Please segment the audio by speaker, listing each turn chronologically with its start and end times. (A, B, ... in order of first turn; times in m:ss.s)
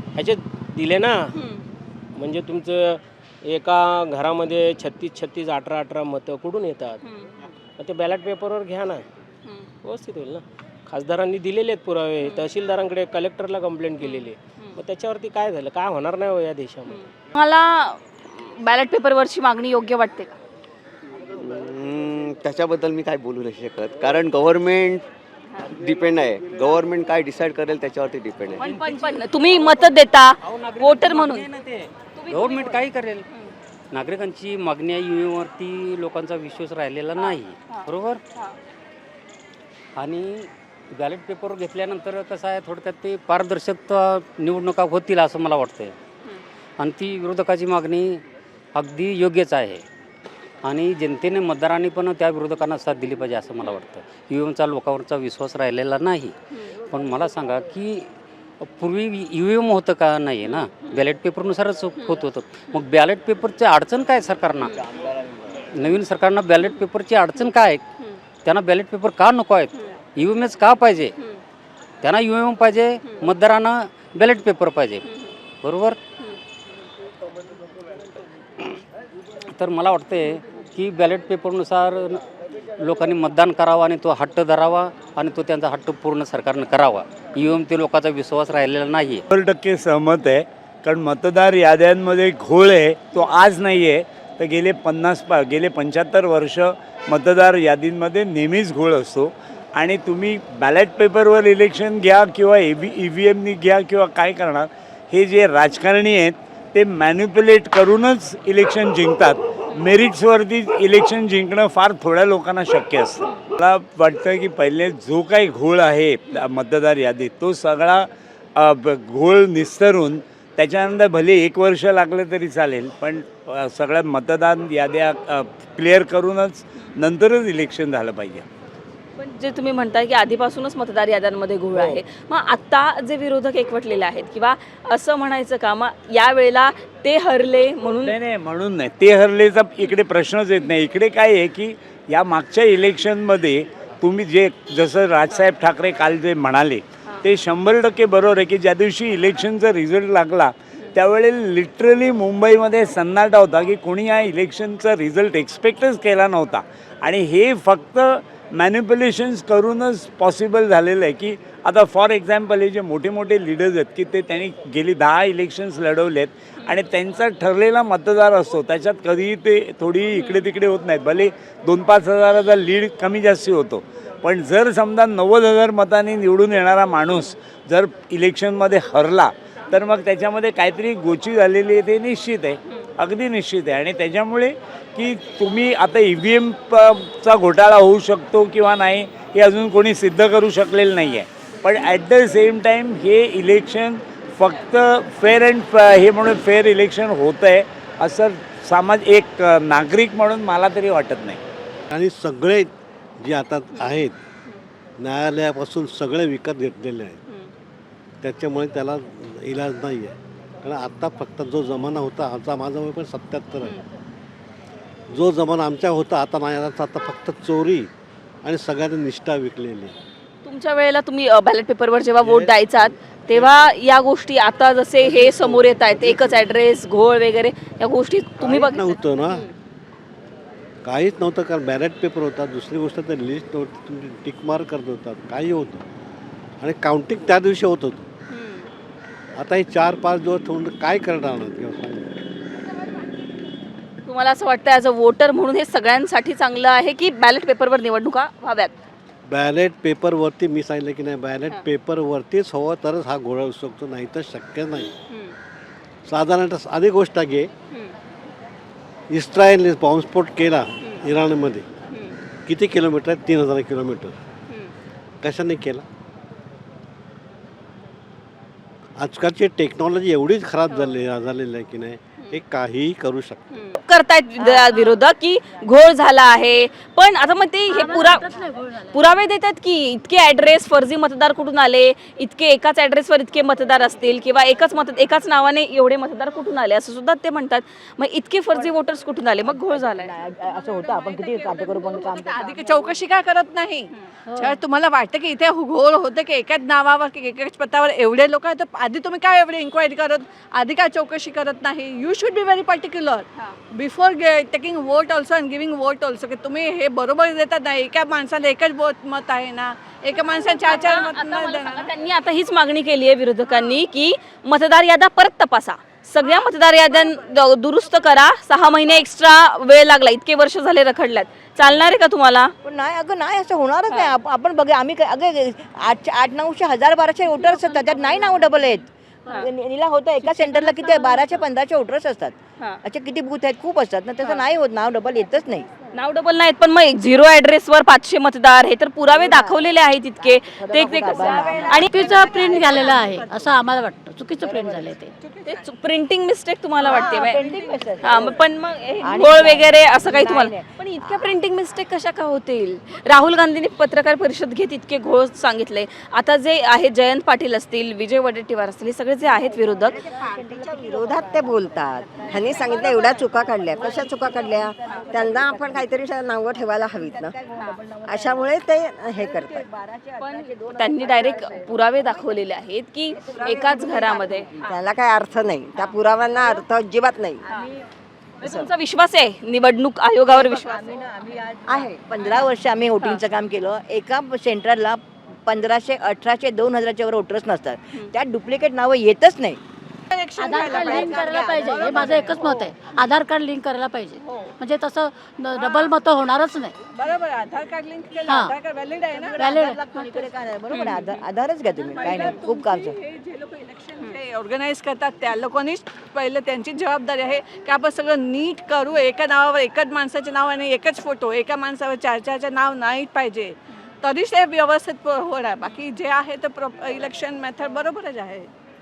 0:00.1-0:01.3 A
0:01.3-0:01.6 B
0:02.2-0:07.0 A
0:07.0-0:07.3 B
0:07.8-0:09.0 A
0:09.8-0:17.0 A
0:12.2-0:12.5 B
0:14.0-0:14.8 B
0:16.9-0:20.3 B
0:21.4-0:25.0 C
0:25.8-0:28.6 C
0:28.6-0:31.5 B
0:32.1-0:33.5 B
0:32.3-0:33.2 D
0:33.9-0:38.2 D
0:37.2-0:38.5 B
0:40.0-0:45.9 D
0:46.8-0:48.2 D
0:48.7-0:49.8 D
0:50.6-0:56.3 D
0:56.9-0:58.1 D
0:58.8-1:04.8 D
1:00.4-1:01.0 B
1:05.7-1:07.8 D
1:08.4-1:11.1 D
1:12.0-1:15.0 D
1:15.0-1:15.3 B
1:15.6-1:16.0 D
1:19.5-1:22.2 D
1:22.8-1:29.2 D
1:29.3-2:08.5 E
2:09.2-2:18.1 B
2:18.0-3:21.4 E
3:21.9-3:24.1 F
3:25.0-3:27.2 F
3:28.2-3:33.8 F
3:35.1-3:37.9 F
3:38.4-3:39.9 F
3:40.4-3:49.5 B
3:42.3-3:42.5 F
3:45.1-3:46.2 F
3:48.4-3:49.5 F
3:50.8-3:55.8 F
3:56.6-3:58.0 F
3:58.3-3:58.6 B
3:59.4-4:02.1 F
4:04.0-4:08.8 B
4:09.3-4:14.9 F
4:15.1-4:15.4 B
4:16.1-4:17.5 F
4:19.1-4:21.6 F
4:22.5-4:24.2 F
4:25.2-4:25.8 F
4:29.0-4:33.4 F
4:33.5-4:38.3 B
4:37.7-4:39.0 G
4:38.9-4:50.1 B
4:49.5-4:52.7 H
4:50.9-5:11.9 I
4:54.3-4:54.6 G
5:10.5-5:22.5 B
5:22.6-5:35.7 H
5:23.9-5:24.1 B
5:30.2-5:31.4 G
5:35.9-5:42.0 B
5:39.1-5:42.0 H
5:41.0-5:43.5 I
5:41.8-5:45.1 G
5:44.4-5:44.9 H
5:45.2-5:45.6 I
5:45.4-5:47.5 B
5:46.8-5:47.7 I
5:47.1-5:48.4 H
5:48.0-6:00.0 B
5:49.0-5:51.3 H
6:00.3-6:01.6 H
6:00.6-6:01.8 J
6:02.1-6:05.9 H
6:02.4-6:04.6 J
6:05.2-6:07.2 J
6:07.1-6:07.9 H
6:08.1-6:09.4 J
6:09.2-6:11.3 H
6:10.2-6:14.6 B
6:13.5-6:14.7 H
6:14.7-6:17.2 J
6:18.4-6:20.8 B
6:20.9-6:29.6 H
6:30.1-6:32.7 I
6:30.4-6:36.8 G
6:30.7-6:32.1 H
6:35.6-6:35.9 I
6:37.0-6:39.8 I
6:38.2-6:38.5 G
6:39.2-6:42.9 H
6:39.3-6:39.8 G
6:40.7-6:41.0 B
6:42.0-6:58.5 I
6:42.1-6:42.4 B